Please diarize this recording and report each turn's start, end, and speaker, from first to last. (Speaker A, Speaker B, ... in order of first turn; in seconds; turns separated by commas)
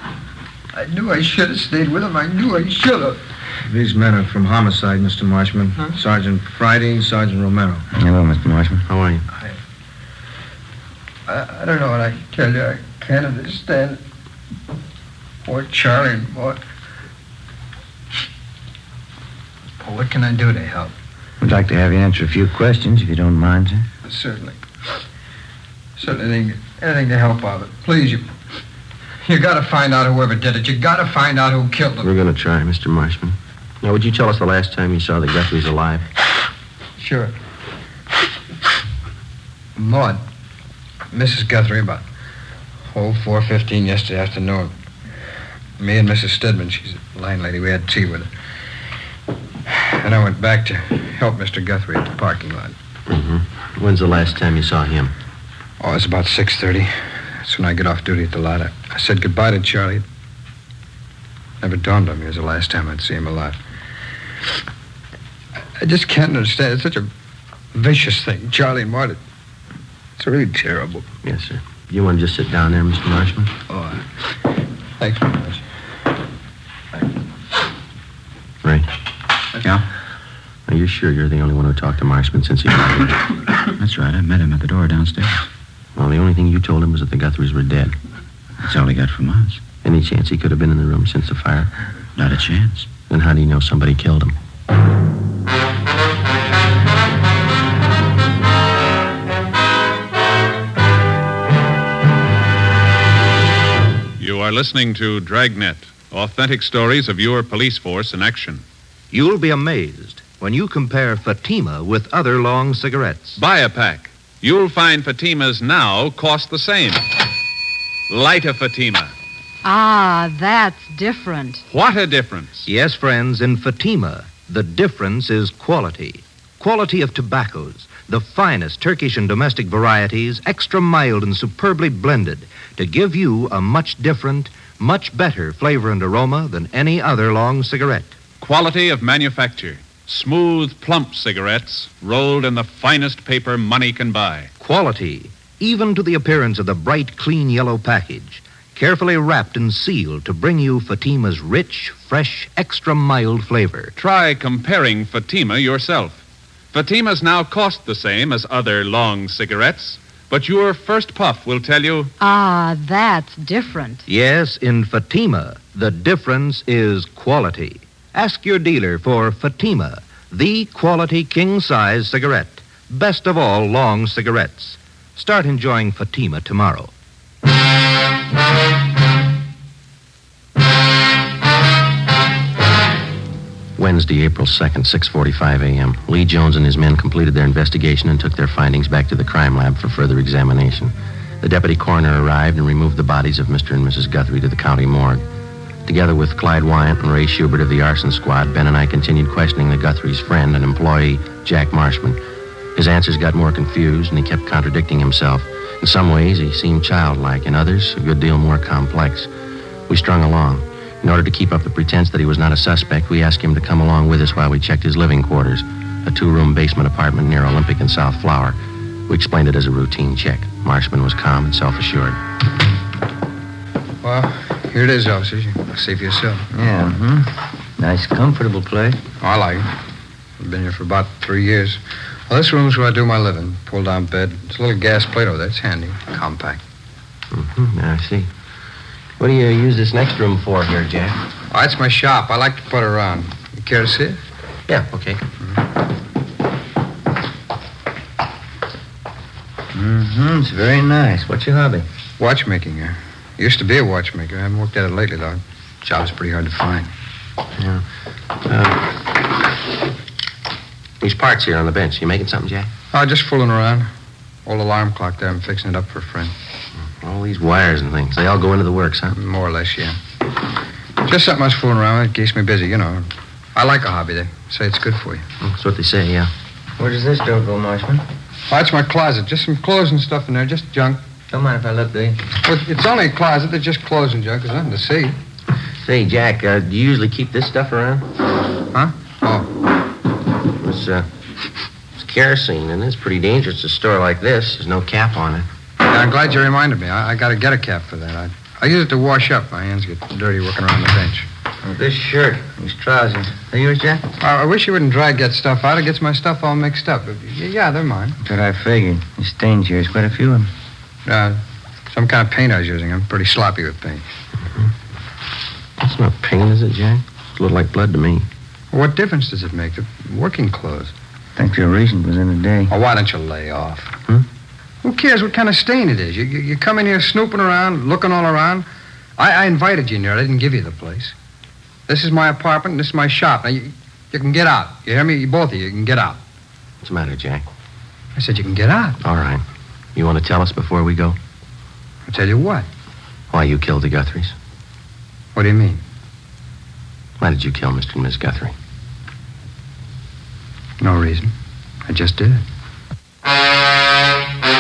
Speaker A: 0.7-3.2, Speaker B: 3.7-7.9, Speaker C: 7.9-8.9, Speaker D: 8.9-9.2, Speaker A: 11.3-14.0, Speaker A: 15.5-16.6, Speaker A: 19.8-20.9, Speaker C: 21.4-23.9, Speaker A: 24.1-24.6, Speaker A: 26.0-28.2, Speaker A: 29.2-32.1, Speaker D: 32.0-36.0, Speaker A: 37.0-37.3, Speaker A: 39.8-40.2, Speaker A: 41.1-42.0, Speaker A: 42.9-44.7, Speaker A: 45.8-48.3, Speaker A: 49.7-52.8, Speaker D: 53.1-55.1, Speaker A: 55.8-60.0, Speaker A: 61.6-63.6, Speaker A: 65.8-67.1, Speaker A: 67.7-69.2, Speaker A: 70.2-71.1, Speaker D: 71.2-73.5, Speaker A: 73.7-74.0, Speaker A: 75.0-75.6, Speaker D: 78.6-78.9, Speaker D: 80.7-83.2, Speaker E: 83.8-85.5, Speaker D: 86.0-88.0, Speaker E: 88.6-89.6, Speaker D: 89.8-91.7, Speaker E: 92.2-92.9, Speaker D: 93.1-94.3, Speaker F: 104.2-108.6, Speaker G: 109.1-113.4, Speaker F: 113.4-117.1, Speaker F: 118.1-119.1, Speaker H: 119.6-121.6, Speaker F: 121.7-122.7, Speaker G: 122.7-138.1, Speaker F: 138.4-144.5, Speaker G: 144.6-153.9, Speaker F: 154.0-156.2, Speaker F: 156.7-162.1, Speaker H: 162.2-164.1, Speaker G: 164.1-176.9, Speaker D: 183.8-195.2, Speaker D: 195.9-202.2, Speaker D: 202.8-209.3, Speaker D: 209.9-218.6, Speaker D: 219.1-222.2, Speaker A: 224.0-226.5, Speaker C: 226.5-229.0, Speaker A: 229.2-229.7, Speaker A: 230.4-236.6, Speaker D: 237.3-238.3, Speaker D: 239.2-241.2, Speaker A: 241.5-244.2, Speaker D: 244.7-245.2, Speaker C: 249.7-251.9, Speaker A: 252.2-256.9, Speaker D: 257.6-257.8, Speaker D: 258.4-259.0, Speaker D: 261.0-262.7, Speaker A: 262.9-263.9, Speaker A: 264.5-266.3, Speaker D: 267.0-269.2, Speaker A: 269.1-270.0, Speaker A: 271.0-275.2, Speaker D: 275.4-276.3, Speaker C: 276.8-278.0, Speaker A: 278.5-281.0, Speaker C: 281.3-282.3, Speaker A: 282.4-285.2, Speaker D: 285.8-288.1, Speaker A: 288.7-289.5, Speaker D: 290.6-291.1, Speaker D: 292.0-295.5, Speaker A: 295.9-301.3, Speaker C: 301.6-304.1, Speaker A: 304.2-308.2, Speaker C: 308.2-310.5, Speaker A: 311.1-314.1, Speaker D: 315.8-318.3, Speaker A: 318.7-320.9, Speaker C: 321.4-322.7, Speaker A: 322.7-324.0, Speaker A: 324.8-328.7, Speaker A: 329.2-331.1, Speaker A: 331.9-336.2, Speaker D: 336.8-337.4, Speaker A: 338.1-339.0, Speaker D: 339.0-339.4, Speaker D: 339.9-341.2, Speaker A: 342.1-342.7, Speaker D: 343.3-344.4, Speaker A: 345.4-345.8, Speaker D: 347.2-348.5, Speaker A: 350.8-351.3, Speaker A: 351.9-352.4